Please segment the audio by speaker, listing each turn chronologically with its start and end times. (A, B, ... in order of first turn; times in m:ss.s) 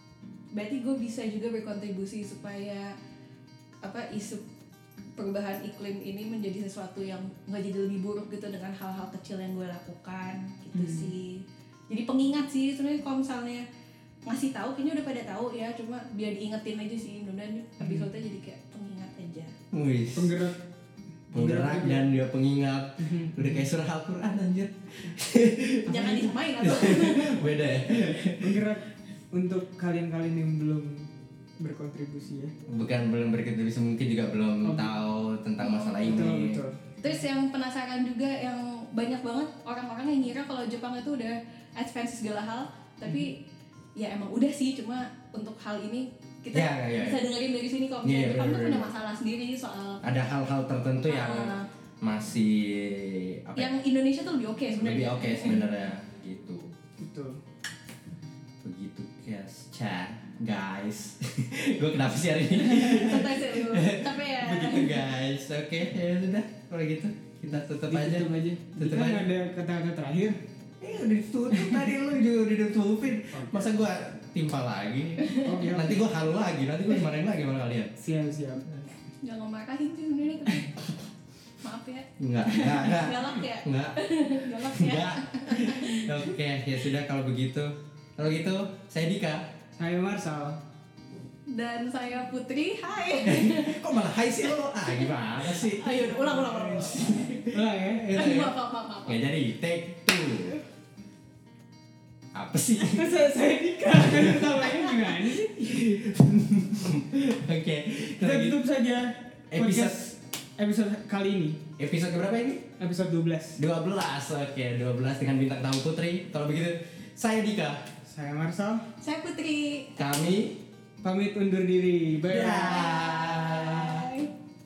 0:00.5-0:02.9 A
0:03.8-0:04.4 A
0:05.2-0:13.6 A
0:10.7-0:11.1 B
0:14.2-0:19.5 A
0:17.8-0:18.1 B
0:19.7-0:20.4 C
0:20.1-0:20.6 B
0:21.3-0:22.1 B
0:21.3-0:28.6 C
0:23.0-0:23.7 B
0:25.9-0:27.4 A
0:25.9-0:26.3 B
0:28.3-0:32.5 B
0:32.7-0:36.6 C
0:34.6-0:34.9 B
0:35.6-0:36.3 A
0:36.0-0:36.8 B
0:37.0-0:43.4 A
0:44.0-0:50.0 A
0:46.5-0:47.2 C
0:48.0-0:48.9 C
0:50.0-0:53.7 C
0:51.1-0:51.7 A
0:53.6-0:55.6 A
0:54.8-0:56.7 C
0:57.0-0:57.4 B
0:58.6-1:09.2 C
1:02.6-1:05.0 A
1:02.8-1:03.0 B
1:07.8-1:10.4 B
1:10.8-1:17.9 C
1:11.5-1:11.9 B
1:13.3-1:13.6 B
1:15.2-1:15.5 A
1:15.4-1:16.0 B
1:18.0-1:18.8 B
1:19.2-1:20.8 A
1:21.6-1:26.2 A
1:22.2-1:24.0 C
1:22.4-1:22.9 B
1:24.5-1:29.4 C
1:29.8-1:30.6 B
1:31.5-1:33.9 A
1:33.2-1:40.6 C
1:34.8-1:37.6 A
1:37.4-1:38.2 B
1:38.1-1:39.2 A
1:42.3-1:43.2 C
1:42.8-1:45.8 B
1:43.9-1:44.7 C
1:45.4-1:48.6 C
1:48.2-1:51.6 B
1:49.5-1:50.1 C
1:51.8-1:52.6 C
1:52.8-1:53.6 B
1:53.6-1:57.8 C
1:58.0-1:58.9 B
1:59.0-2:00.0 A
2:00.0-2:00.6 C
2:01.0-2:02.8 B
2:02.3-2:04.1 C
2:02.4-2:04.3 A